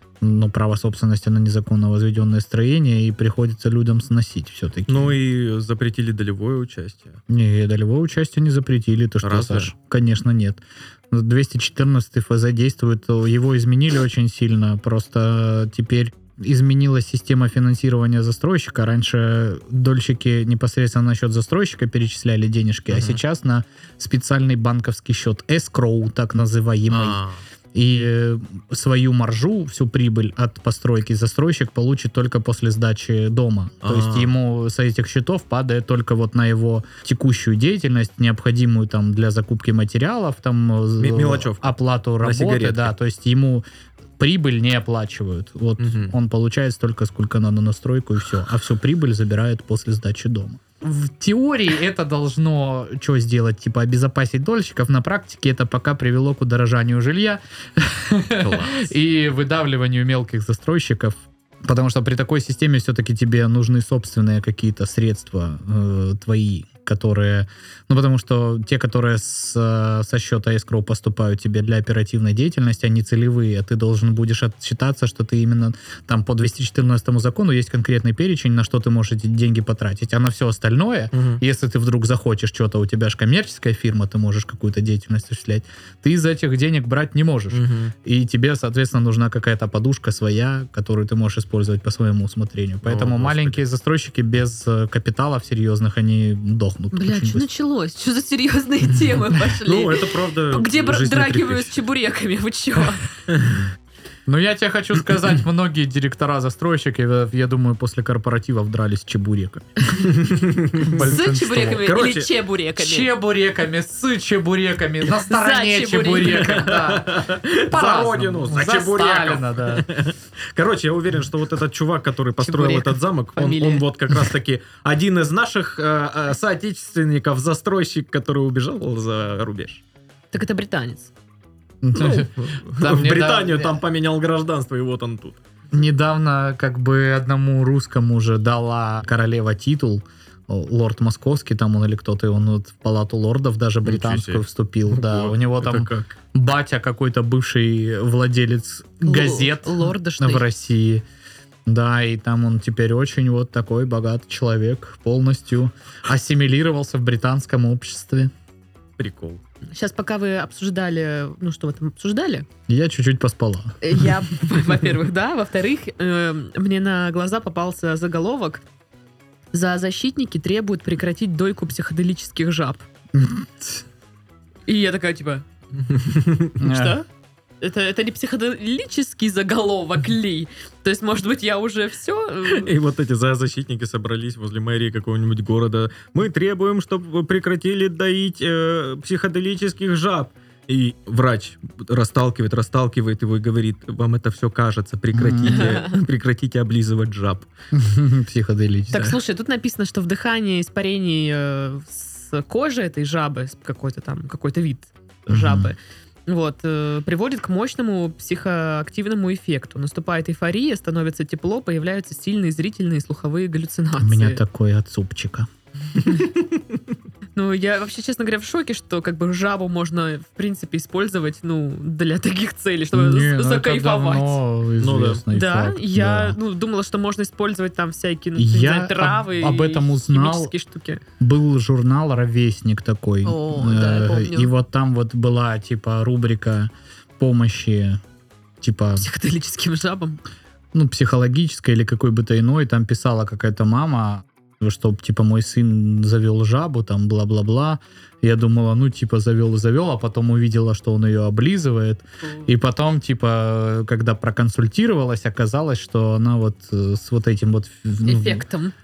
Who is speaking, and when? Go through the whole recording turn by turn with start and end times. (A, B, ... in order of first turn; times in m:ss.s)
0:00.2-0:05.1 A
0:04.9-0:07.2 B
0:07.3-0:27.2 A
0:09.2-0:09.7 B
0:22.9-0:23.2 B
0:26.9-0:27.4 B
0:27.7-0:43.6 A
0:33.8-0:34.3 B
0:41.0-0:42.9 B
0:44.2-1:37.5 A
0:45.8-0:46.1 B
0:58.4-0:58.9 B
1:21.1-1:21.4 B
1:27.5-1:27.9 B
1:32.8-1:33.6 B
1:36.9-1:43.1 C
1:39.6-1:41.8 B
1:44.3-1:50.1 A
1:50.0-1:51.0 B
1:50.8-1:51.9 A
1:51.0-1:53.1 C
1:51.7-1:52.3 B
1:52.8-1:59.9 A
1:55.2-1:56.8 C
1:56.2-2:09.8 B
2:02.4-2:03.8 C
2:10.3-2:11.1 C
2:11.8-2:13.8 A
2:11.9-2:15.4 B
2:15.7-2:31.0 A
2:23.8-2:26.1 B
2:29.0-2:30.4 C
2:31.7-2:38.3 A
2:39.0-2:39.4 B
2:39.7-2:42.5 C
2:42.7-2:43.8 A
2:43.8-2:48.6 C
2:49.5-2:52.8 C
2:53.1-2:53.8 A
2:54.7-2:55.4 C
2:55.8-2:56.6 B
2:56.6-2:57.0 A
2:56.6-2:57.0 C
2:57.6-3:02.7 C
3:02.5-3:17.5 B
3:15.1-3:15.8 A
3:15.4-3:15.9 C
3:17.7-3:19.1 A
3:18.9-3:34.4 C
3:25.3-3:25.7 A
3:34.0-3:35.5 A
3:37.3-3:44.4 C
3:42.9-3:46.4 A
3:44.8-3:45.2 B
3:45.3-3:51.0 C
3:48.4-3:50.5 A
3:51.2-3:58.0 A
3:53.2-3:54.5 C
3:58.6-3:59.0 A
3:59.0-4:00.2 C
4:00.7-4:18.4 A
4:18.0-4:18.7 C